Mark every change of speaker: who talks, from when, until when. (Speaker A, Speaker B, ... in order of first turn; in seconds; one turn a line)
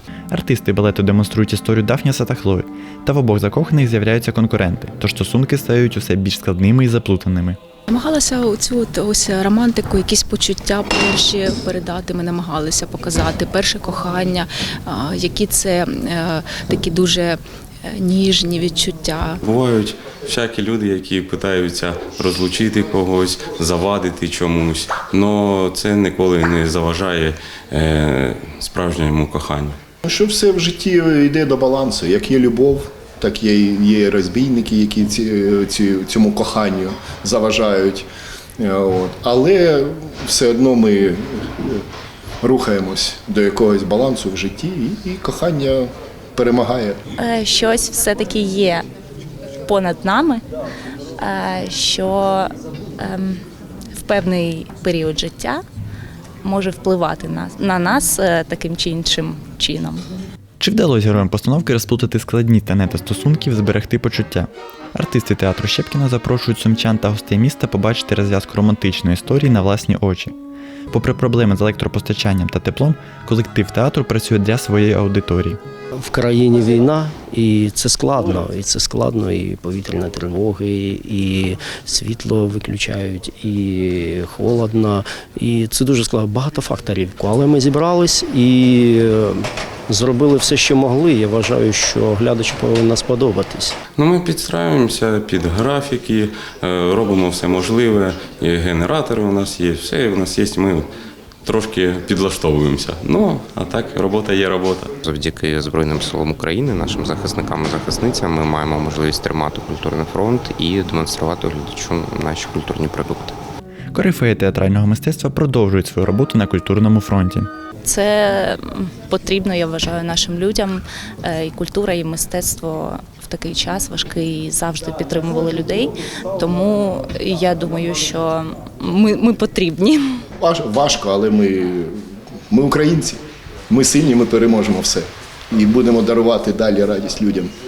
Speaker A: 0.3-7.6
Speaker B: 7.9-19.4
Speaker C: 19.4-29.8
Speaker D: 30.0-38.1
Speaker D: 38.6-41.8
Speaker D: 42.4-47.0
Speaker E: 47.2-48.8
Speaker E: 49.6-50.4
Speaker E: 51.2-53.4
Speaker E: 53.9-55.6
Speaker E: 56.4-60.0
Speaker A: 60.6-70.3
Speaker A: 70.9-75.6
Speaker F: 76.0-93.8
Speaker C: 94.0-100.9
Speaker C: 101.5-104.9
Speaker G: 105.0-113.4
Speaker A: 113.9-117.5
Speaker E: 117.8-130.2
Speaker D: 130.4-131.9
Speaker D: 132.5-137.5